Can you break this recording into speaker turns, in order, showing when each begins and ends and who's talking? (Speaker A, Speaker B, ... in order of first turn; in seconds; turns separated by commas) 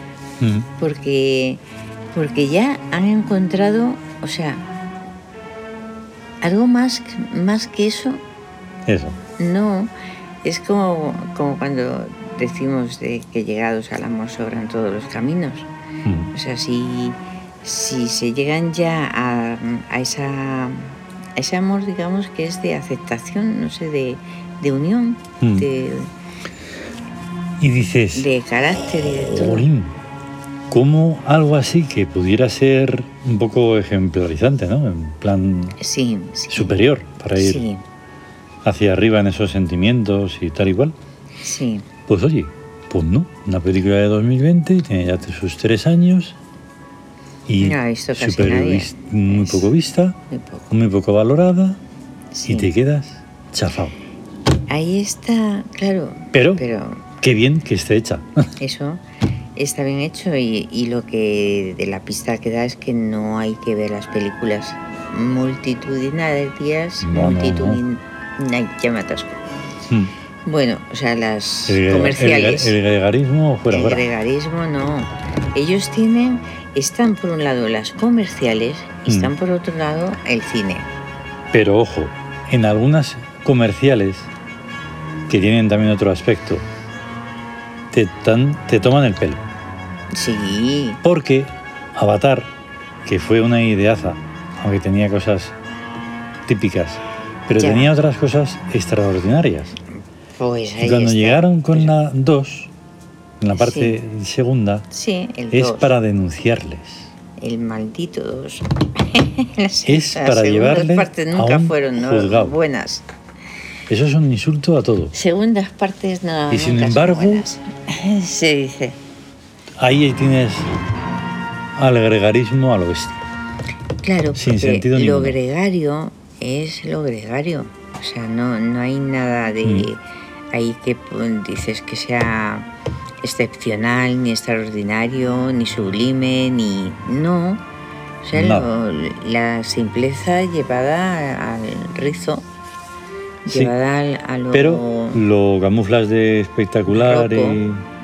Speaker A: 0.4-0.7, Speaker B: 0.8-4.7, Speaker B: 6.4-8.2, Speaker A: 8.9-9.2, Speaker B: 9.4-9.9, Speaker B: 10.4-15.7, Speaker A: 16.1-16.3, Speaker B: 16.3-26.1, Speaker A: 25.4-25.7, Speaker A: 27.6-28.3, Speaker B: 28.1-29.7, Speaker A: 29.0-29.9, Speaker A: 30.7-35.8, Speaker B: 35.8-36.8, Speaker A: 36.5-37.6, Speaker B: 37.4-37.8, Speaker A: 38.6-41.0, Speaker B: 41.4-41.9, Speaker A: 42.1-46.4, Speaker A: 47.5-50.2, Speaker B: 47.6-49.7, Speaker B: 50.3-50.7, Speaker A: 50.7-51.8, Speaker B: 52.3-52.7, Speaker A: 52.5-54.0, Speaker B: 54.7-57.1, Speaker A: 56.3-56.6, Speaker A: 57.2-58.5, Speaker B: 58.6-59.0, Speaker B: 59.6-69.4, Speaker A: 67.0-67.8, Speaker B: 70.5-72.8, Speaker A: 71.7-74.1, Speaker B: 73.7-80.9, Speaker A: 79.1-79.3, Speaker A: 81.5-84.3, Speaker A: 85.3-86.7, Speaker A: 87.9-89.4, Speaker B: 90.1-91.0, Speaker A: 91.0-92.5, Speaker A: 93.1-95.5, Speaker A: 96.5-99.8, Speaker B: 97.5-97.9, Speaker B: 99.9-101.9, Speaker A: 100.8-102.7, Speaker A: 103.4-104.9, Speaker B: 103.5-104.0, Speaker B: 104.9-105.9, Speaker A: 105.5-107.1, Speaker B: 107.4-113.1, Speaker A: 109.9-112.5, Speaker A: 113.9-115.1, Speaker B: 115.1-119.0, Speaker A: 116.5-117.5, Speaker A: 119.8-120.7, Speaker A: 121.8-123.2, Speaker B: 124.0-132.7, Speaker A: 124.3-125.4, Speaker B: 133.2-137.6, Speaker B: 138.2-142.4, Speaker A: 138.3-138.7, Speaker B: 143.4-145.2, Speaker A: 143.5-143.7, Speaker A: 144.5-147.8, Speaker B: 146.9-147.6